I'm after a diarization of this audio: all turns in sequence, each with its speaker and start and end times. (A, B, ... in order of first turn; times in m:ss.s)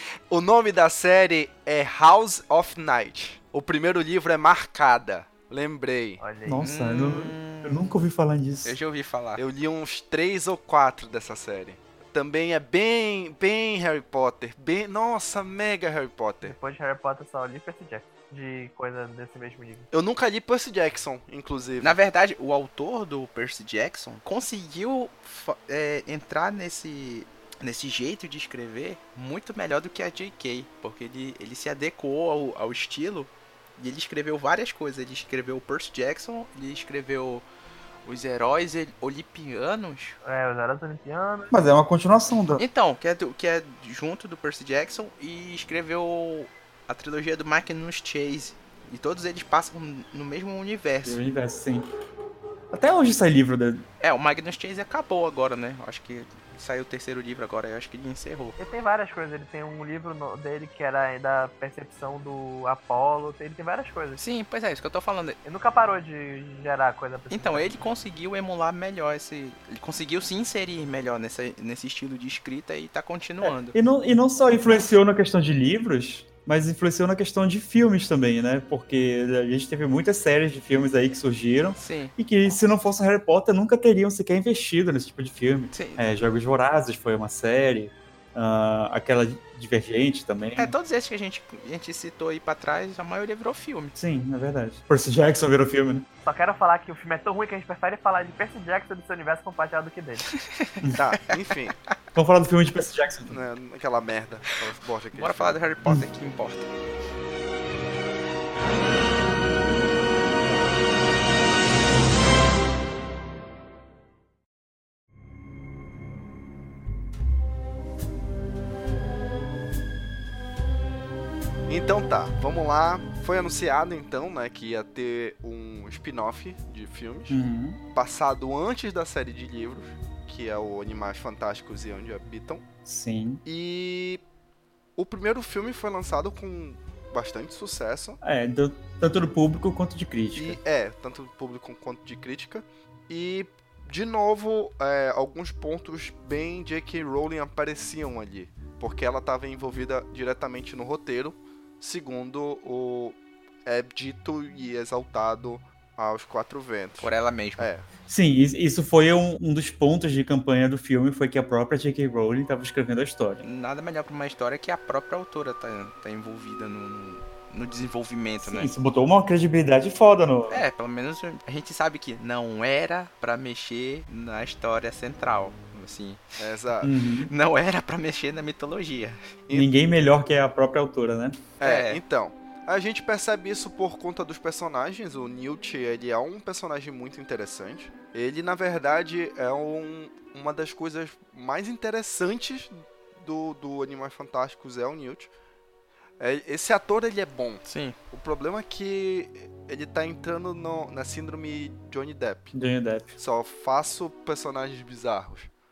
0:00.3-0:06.2 A
0:06.2-0:06.6 B
0:06.4-0:08.8 C
0:06.6-0:07.9 D
0:08.6-0:09.4 D
0:09.4-0:16.6 A
0:16.4-0:19.9 B
0:19.9-0:22.0 A
0:21.8-0:37.4 D
0:38.0-0:40.2 D
0:40.2-0:41.5 B
0:41.5-0:42.6 C
0:42.6-0:51.2 D
0:51.0-0:51.9 C
0:52.7-0:53.8 C
0:54.0-0:58.6 D
0:58.6-1:04.2 B
1:04.2-1:05.4 D
1:05.4-1:07.7 B
1:07.3-1:13.8 D
1:13.4-1:30.8 C
1:21.8-1:22.1 D
1:25.7-1:26.1 D
1:30.6-1:34.0 D
1:34.0-1:36.1 C
1:36.2-1:40.3 B
1:40.3-1:40.8 D
1:40.8-1:41.1 C
1:40.9-1:41.8 A
1:42.2-1:43.4 C
1:43.3-1:45.6 A
1:45.1-1:46.7 D
2:01.7-2:07.4 A
2:07.3-2:07.8 C
2:07.9-2:12.7 A
2:12.8-2:13.4 C
2:13.4-2:14.2 A
2:15.0-2:18.2 A
2:18.2-2:20.6 C
2:20.4-2:37.9 A
2:37.0-2:37.7 D
2:38.1-2:43.4 C
2:43.4-2:48.7 D
2:48.4-2:50.6 C
2:50.5-2:56.2 D
2:56.4-2:56.9 A
2:56.8-2:57.3 C
2:57.2-2:59.2 D
2:59.5-3:01.4 C
3:01.6-3:15.3 A
3:01.6-3:02.0 D
3:16.2-3:22.5 A
3:17.6-3:18.0 D
3:22.5-3:23.1 C
3:23.2-3:25.5 A